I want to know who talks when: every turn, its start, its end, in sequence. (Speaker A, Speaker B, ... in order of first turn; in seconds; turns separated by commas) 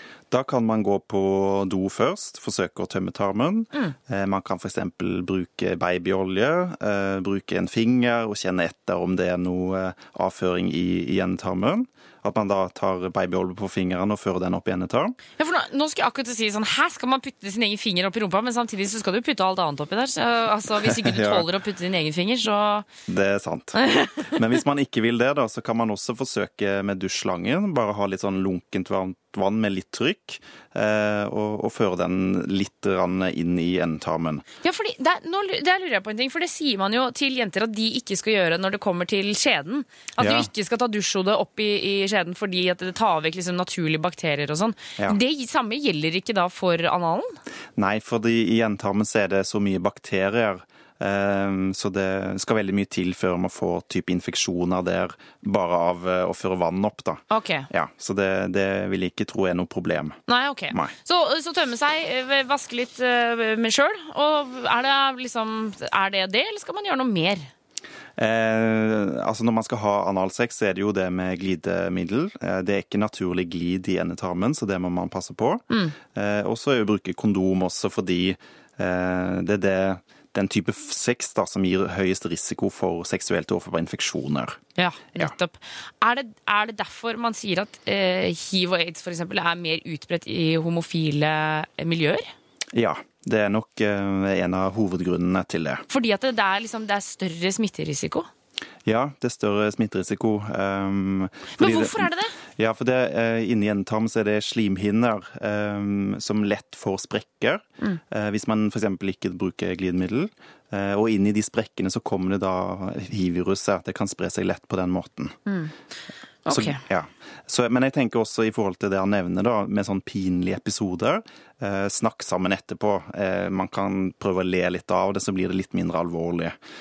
Speaker A: 0.3-15.2, Speaker B: 15.4-22.9, Speaker A: 20.8-21.5, Speaker A: 23.1-34.4, Speaker B: 23.9-24.2, Speaker B: 34.6-47.4, Speaker A: 40.2-40.5, Speaker A: 47.8-60.2, Speaker B: 57.3-57.7, Speaker B: 60.3-67.5, Speaker A: 68.2-84.6, Speaker B: 75.7-76.0, Speaker B: 84.8-92.3, Speaker A: 92.7-95.8, Speaker B: 95.9-98.3, Speaker A: 98.8-115.4, Speaker B: 101.6-102.3, Speaker B: 115.5-115.7, Speaker B: 116.5-116.8, Speaker A: 116.5-126.6